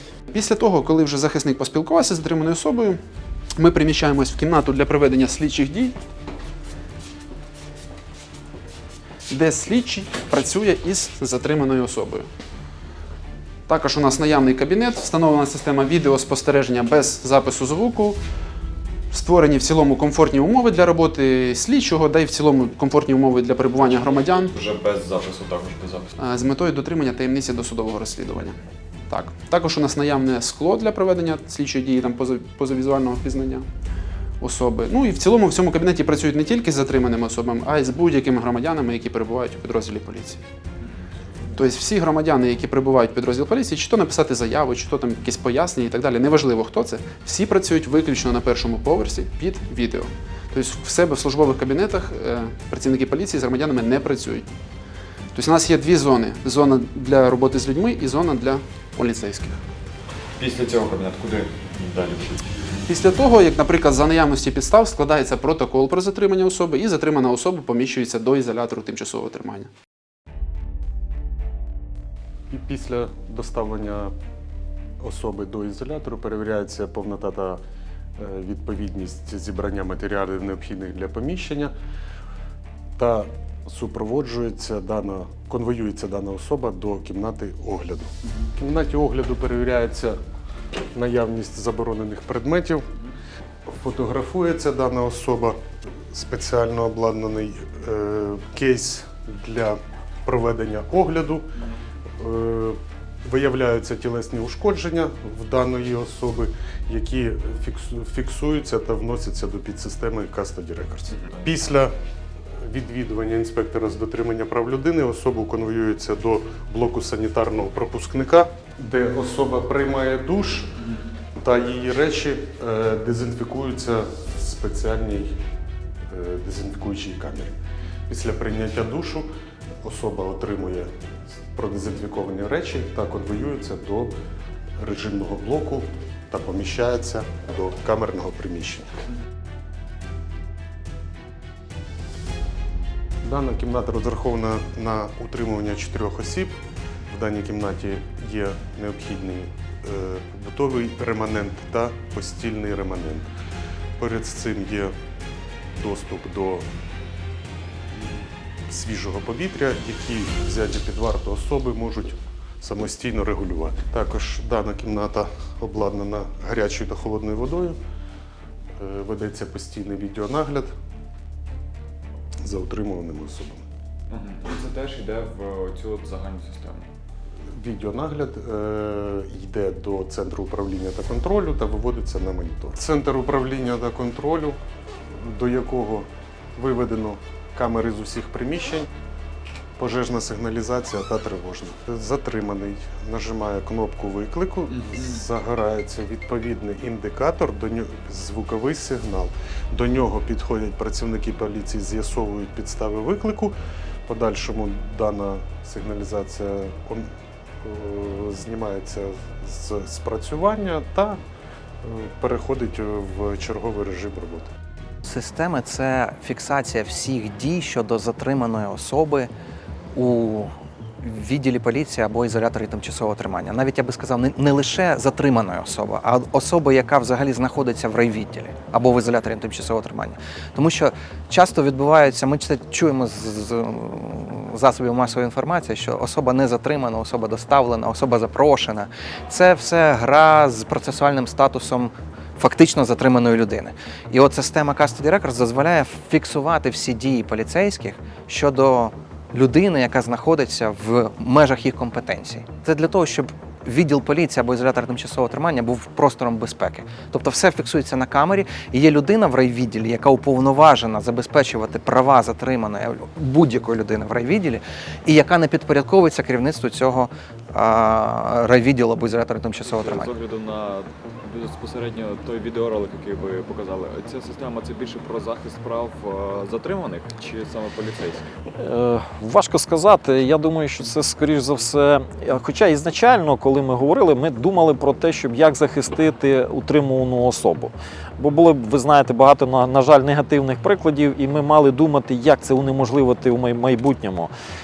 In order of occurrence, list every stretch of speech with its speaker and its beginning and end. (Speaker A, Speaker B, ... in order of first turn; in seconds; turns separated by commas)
Speaker A: 0.3-3.0, Speaker A: 3.6-5.9, Speaker A: 9.3-12.3, Speaker A: 13.7-18.2, Speaker A: 19.1-24.5, Speaker B: 24.6-26.0, Speaker A: 26.2-28.6, Speaker A: 29.1-33.6, Speaker A: 34.4-40.4, Speaker A: 41.5-54.5, Speaker A: 55.3-59.6, Speaker B: 60.4-62.3, Speaker A: 62.9-69.7, Speaker C: 72.5-74.1, Speaker C: 75.0-77.6, Speaker C: 78.2-81.7, Speaker C: 83.0-90.2, Speaker C: 90.9-92.8, Speaker C: 93.7-95.6, Speaker C: 96.1-101.5, Speaker C: 102.2-111.9, Speaker C: 112.6-120.7, Speaker C: 121.4-125.4, Speaker C: 126.1-127.5, Speaker C: 128.1-129.3, Speaker C: 129.8-130.9, Speaker C: 131.5-134.2, Speaker C: 134.8-138.9, Speaker C: 143.2-146.6, Speaker C: 147.1-153.3, Speaker C: 154.0-154.9, Speaker C: 155.7-156.7, Speaker C: 157.9-167.8, Speaker C: 168.8-170.7, Speaker C: 172.4-173.6, Speaker B: 174.1-176.8, Speaker C: 177.5-184.6, Speaker C: 185.1-188.9, Speaker C: 189.8-203.5, Speaker C: 204.1-207.1, Speaker C: 207.6-211.2, Speaker C: 211.8-214.5, Speaker D: 215.1-219.3, Speaker D: 219.9-270.1, Speaker B: 269.6-278.3, Speaker E: 278.6-294.3